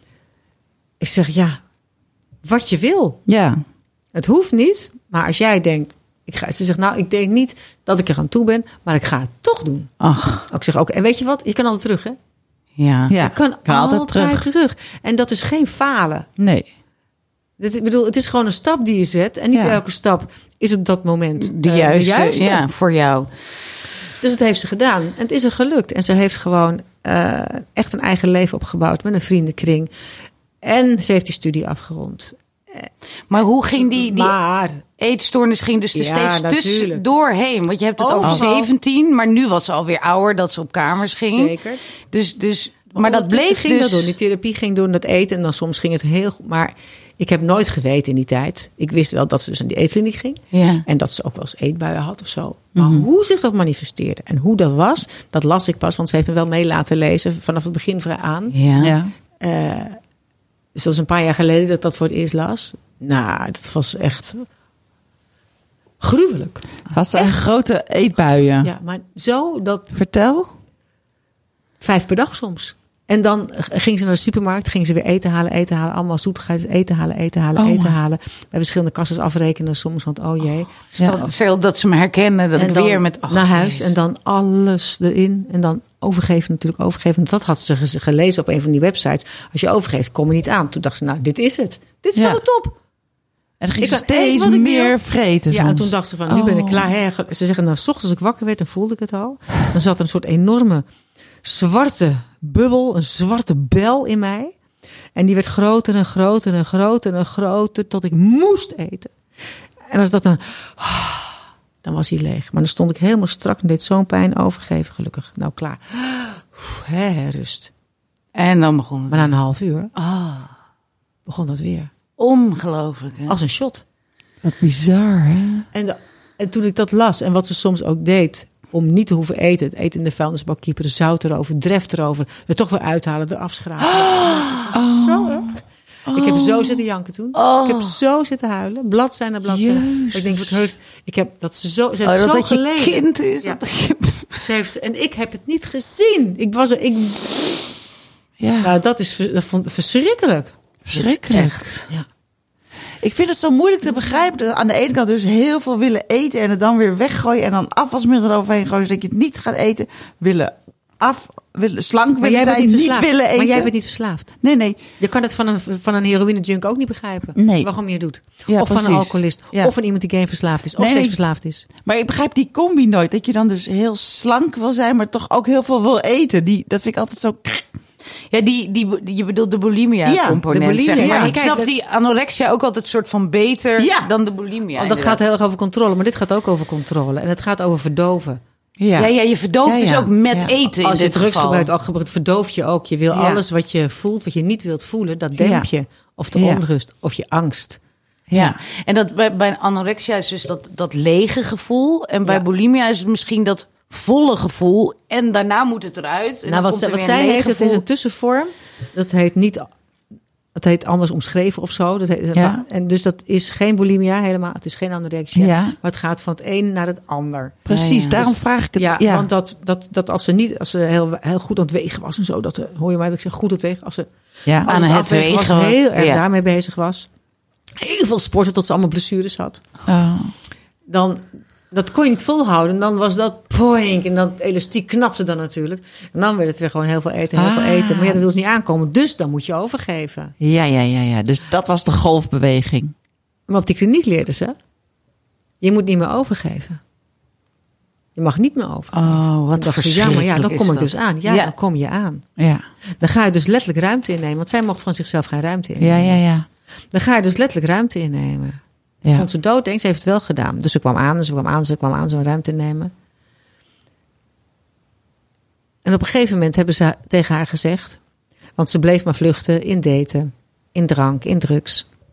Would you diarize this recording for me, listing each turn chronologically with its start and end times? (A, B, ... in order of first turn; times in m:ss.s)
0:01.0-0:01.6 A
0:02.4-0:03.2 A
0:03.3-0:03.6 B
0:04.1-0:09.9 A
0:10.0-0:10.5 C
0:10.5-0:12.2 A
0:12.8-0:13.1 C
0:13.1-0:14.4 B
0:13.2-0:16.3 A
0:16.4-0:16.7 B
0:17.6-0:22.7 A
0:21.4-0:23.3 C
0:24.2-0:29.9 A
0:30.6-0:34.8 A
0:33.3-0:34.4 C
0:35.0-0:41.6 C
0:36.0-0:37.1 A
0:38.0-0:38.7 A
0:40.9-0:41.8 A
0:42.1-0:44.1 C
0:42.9-0:58.6 A
0:50.5-0:50.8 C
0:52.8-0:53.1 B
0:58.5-0:58.9 C
0:58.8-0:59.1 B
0:59.4-1:00.0 A
1:00.8-1:04.5 A
1:06.0-1:07.4 A
1:06.9-1:08.7 B
1:08.6-1:09.9 A
1:09.9-1:10.5 B
1:11.8-1:20.9 A
1:17.6-1:18.0 B
1:21.0-1:23.9 C
1:22.6-1:32.8 A
1:32.2-1:32.4 B
1:33.6-1:36.9 B
1:33.8-1:35.0 A
1:35.5-1:40.8 A
1:41.4-1:44.6 A
1:45.2-1:49.1 A
1:49.9-1:57.7 A
1:58.4-1:59.3 C
1:59.1-1:59.9 A
2:00.0-2:00.5 C
2:01.3-2:01.9 A
2:02.2-2:03.4 C
2:03.3-2:03.8 A
2:04.4-2:05.7 B
2:05.7-2:23.6 A
2:13.8-2:14.7 C
2:14.7-2:15.5 B
2:16.1-2:16.8 B
2:17.3-2:18.0 C
2:19.5-2:20.6 B
2:22.0-2:24.4 C
2:24.3-2:27.5 A
2:28.4-2:28.7 B
2:28.6-2:30.6 A
2:30.9-2:31.6 B
2:30.9-2:31.9 C
2:33.0-2:43.7 B
2:42.2-2:44.4 A
2:44.4-2:44.8 B
2:45.0-2:51.6 A
2:47.4-2:47.7 B
2:48.5-2:49.7 B
2:50.8-2:57.7 B
2:58.3-3:05.2 C
3:00.1-3:00.4 B
3:00.5-3:01.7 A
3:01.0-3:01.3 B
3:03.8-3:04.1 B
3:04.8-3:08.4 A
3:08.8-3:09.1 B
3:09.0-3:11.7 C
3:09.6-3:10.5 B
3:10.8-3:17.8 A
3:13.1-3:13.4 B
3:15.4-3:15.7 B
3:16.4-3:16.6 B
3:18.3-3:18.6 B
3:18.3-3:27.8 C
3:26.5-3:29.7 A
3:30.6-3:37.6 A
3:32.4-3:32.6 B
3:35.4-3:35.8 B
3:37.7-3:39.3 B
3:37.7-3:38.3 C
3:38.8-3:47.1 A
3:44.7-3:46.2 C
3:47.8-3:49.6 A
3:49.9-3:50.3 B
3:50.9-4:00.4 A
3:57.4-3:58.2 B
4:00.4-4:02.9 B
4:03.5-4:04.6 A
4:05.6-4:06.8 A
4:08.2-4:12.2 A
4:08.9-4:11.5 C
4:12.4-4:12.6 B
4:13.0-4:16.2 A
4:15.8-4:16.4 B
4:16.9-4:22.9 A
4:25.8-4:28.0 A
4:28.6-4:31.9 A